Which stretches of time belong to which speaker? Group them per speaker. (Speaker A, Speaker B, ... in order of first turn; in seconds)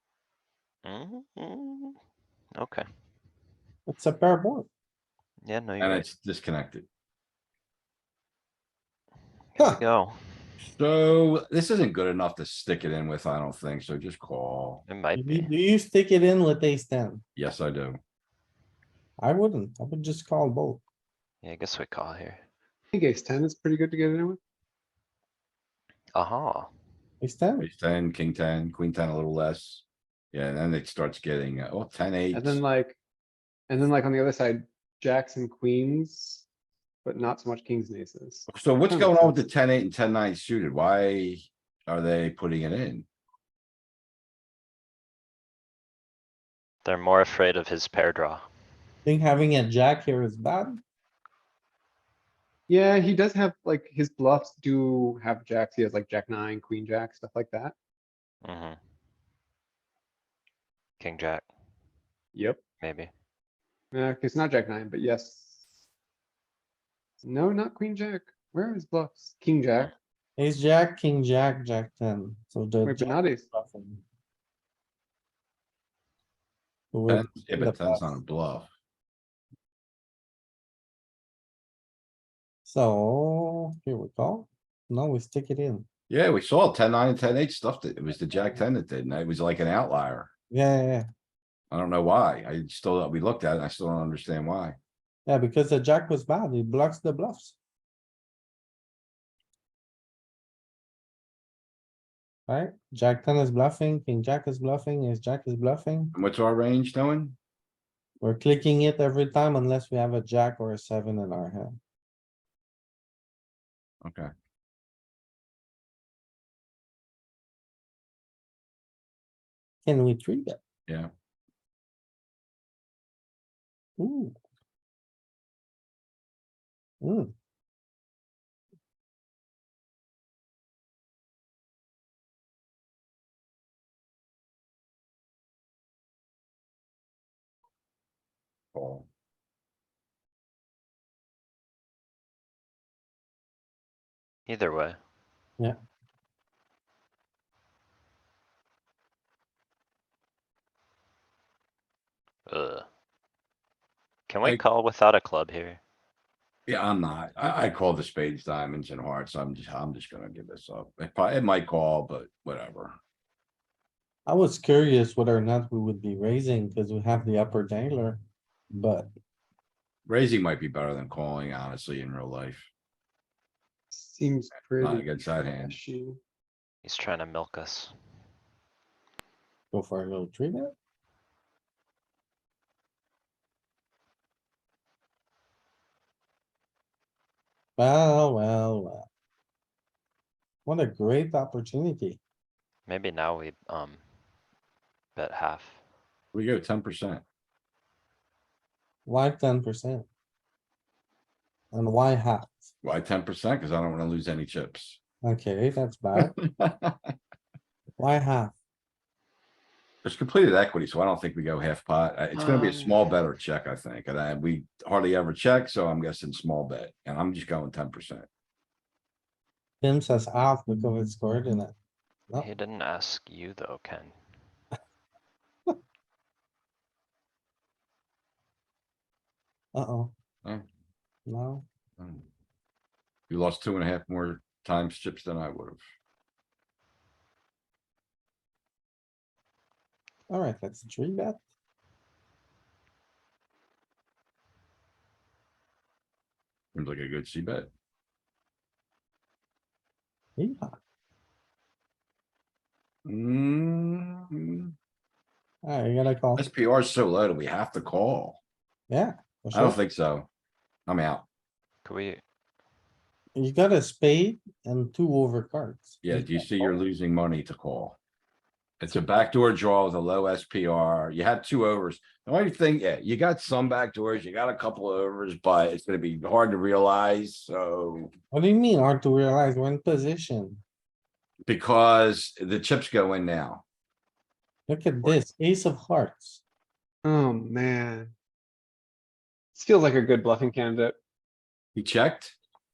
Speaker A: 0.8-1.9, 2.5-2.8, 5.4-6.1, 9.5-10.2, 14.9-15.5, 21.4-22.4, 26.1-26.7, 46.8-48.4, 58.4-58.8, 61.0-61.5, 62.8-63.1, 144.5-145.0, 152.5-152.8, 154.3-155.8, 176.8-177.9, 192.9-194.0, 195.2-195.8, 222.4-224.2, 261.8-262.2
Speaker B: 3.9-4.7, 15.2-17.2, 19.2-20.8, 27.2-27.7, 49.0-50.8, 70.4-74.0, 76.9-78.2, 82.6-85.9, 90.5-91.0, 95.2-97.5, 102.5-106.1, 108.2-111.8, 119.8-120.6, 124.0-124.3, 127.0-127.3, 164.2-168.2, 168.7-169.1, 179.7-180.7, 187.8-189.0, 190.6-192.2, 199.1-200.1, 201.7-202.7, 205.2-206.3, 208.0-208.5, 219.8-221.7, 229.7-230.1, 231.3-231.6, 240.3-241.4, 250.4-250.8, 255.6-256.4, 258.9-259.8, 263.4-266.8, 278.3-280.6, 284.7-286.4
Speaker C: 5.8-6.9, 10.7-14.8, 17.4-18.0, 27.6-32.6, 38.5-43.0, 77.1-78.7, 86.1-90.3, 91.7-94.8, 106.1-107.3, 114.0-114.3, 138.7-139.1, 156.7-162.9, 170.1-172.7, 174.8-175.8, 196.3-197.2, 202.8-205.0, 206.2-207.1, 210.0-218.3, 232.0-232.2, 233.3-235.8, 246.7-247.7, 253.1-254.7, 256.3-258.4, 259.5-260.3, 260.9-261.2, 266.0-268.0, 268.8-278.1, 281.4-283.6, 291.7-292.4
Speaker D: 22.9-24.4, 32.3-33.0, 33.7-36.4, 37.0-39.4, 52.7-57.7, 62.3-62.6, 63.9-65.6, 67.2-69.9, 72.8-73.5, 173.9-176.2, 287.0-288.1, 289.5-290.9